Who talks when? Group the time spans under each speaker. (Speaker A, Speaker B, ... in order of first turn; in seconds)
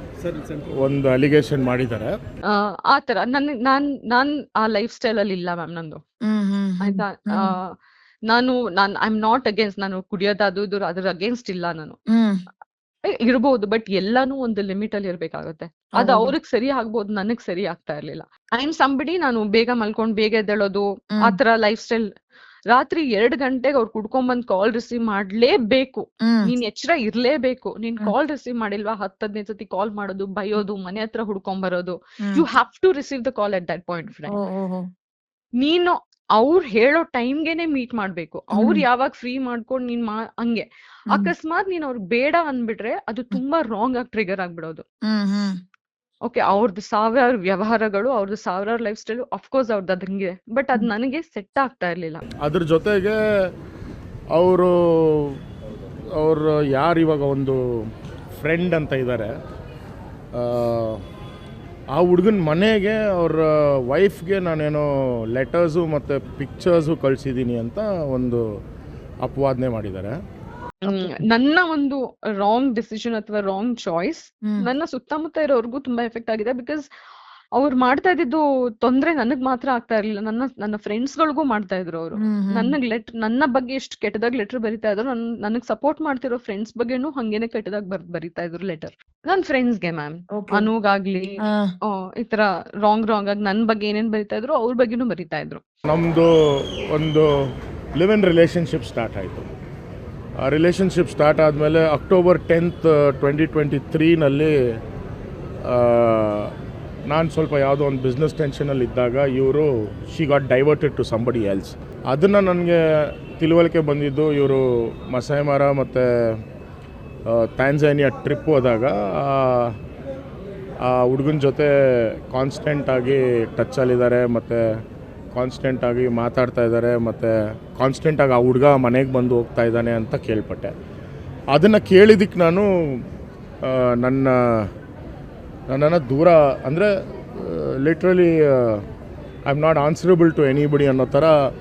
Speaker A: 0.8-2.1, 52.4-53.2, 54.3-55.4, 56.2-57.6, 58.4-59.3, 60.4-61.0, 62.0-68.4, 69.2-70.1, 95.9-97.3, 98.0-99.5, 100.4-104.5, 105.6-106.5, 107.1-112.8, 113.4-116.0, 117.3-119.7, 120.8-121.7, 122.3-124.6, 125.3-130.7, 131.5-132.7, 133.6-134.4, 135.7-138.8, 139.5-141.3
Speaker B: 2.5-6.0, 6.8-7.7, 8.3-12.0, 13.2-22.1, 22.7-34.4, 35.6-44.8, 46.3-52.2, 70.9-76.8, 77.6-91.3, 91.9-95.6
Speaker C: 6.3-7.5, 12.1-12.4, 16.0-16.3, 34.3-34.9, 38.5-38.8, 45.1-45.5, 82.2-82.7, 90.3-90.7, 91.4-91.7